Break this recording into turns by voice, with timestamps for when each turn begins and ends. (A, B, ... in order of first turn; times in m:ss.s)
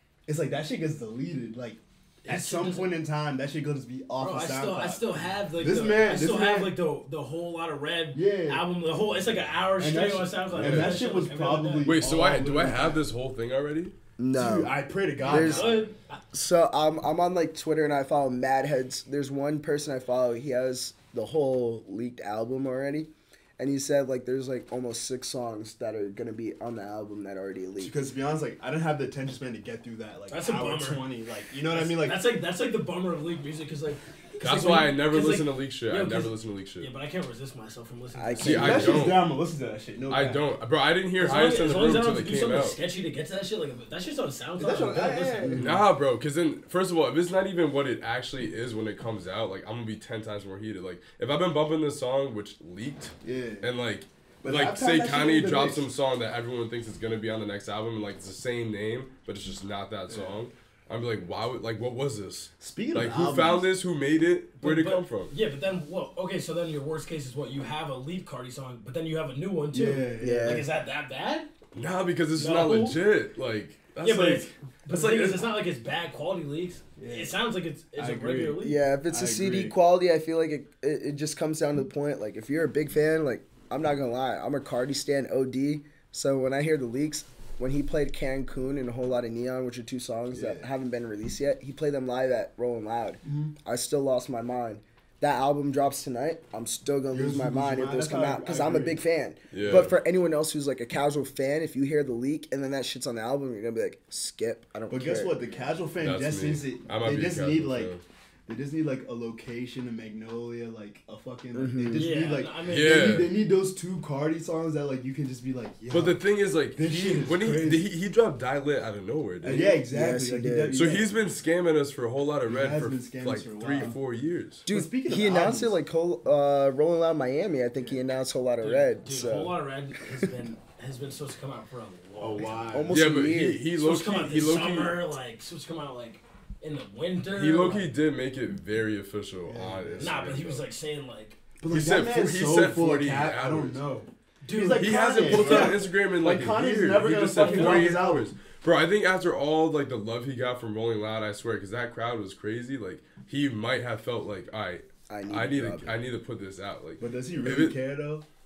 0:00.3-0:06.7 A
0:02.2-0:03.0 B
0:04.2-0:12.0 B
0:08.1-0:08.6 A
0:09.8-0:13.0 A
0:10.5-0:11.0 C
0:11.8-0:13.9 C
0:14.2-0:15.8 D
0:14.3-0:15.9 A
0:15.2-0:16.2 B
0:16.3-0:27.9 D
0:27.8-0:32.2 A
0:30.3-0:31.1 B
0:31.7-0:39.0 B
0:34.4-0:36.9 C
0:38.1-0:39.1 D
0:38.4-0:39.3 C
0:38.4-0:40.4 A
0:40.1-0:42.8 C
0:41.2-0:45.6 B
0:44.6-0:45.8 A
0:45.4-0:45.8 D
0:45.6-1:05.3 C
0:53.2-0:53.7 A
0:54.4-0:55.9 A
1:00.1-1:00.4 A
1:02.6-1:03.7 A
1:04.6-1:11.5 B
1:09.7-1:10.7 A
1:10.2-1:10.7 D
1:11.7-1:14.5 C
1:12.3-1:13.0 B
1:14.0-1:18.8 B
1:14.9-1:15.4 A
1:17.0-1:17.4 A
1:17.9-1:19.7 A
1:18.6-1:45.4 D
1:30.3-1:30.7 A
1:33.2-1:33.5 A
1:37.1-1:39.0 A
1:39.5-1:39.9 C
1:39.6-1:39.9 A
1:44.9-1:47.9 A
1:46.0-1:48.0 C
1:48.5-1:56.2 A
1:51.5-1:52.1 D
1:51.9-1:53.2 B
1:52.7-1:53.4 C
1:55.9-1:59.7 C
1:56.7-1:57.8 A
1:59.4-2:01.1 A
1:59.4-2:01.0 D
2:00.7-2:04.6 C
2:02.5-2:04.0 A
2:04.6-2:09.6 D
2:04.7-2:05.8 A
2:07.8-2:08.0 A
2:08.6-2:12.9 B
2:12.2-2:13.0 A
2:12.7-2:13.6 D
2:12.9-2:15.0 C
2:13.8-2:17.9 B
2:17.3-2:20.6 C
2:19.4-2:20.2 A
2:20.0-2:21.4 B
2:21.6-2:28.3 A
2:21.7-2:23.8 C
2:24.4-2:25.8 B
2:24.8-2:37.8 C
2:27.4-2:27.9 B
2:35.1-2:36.0 D
2:37.0-2:38.2 A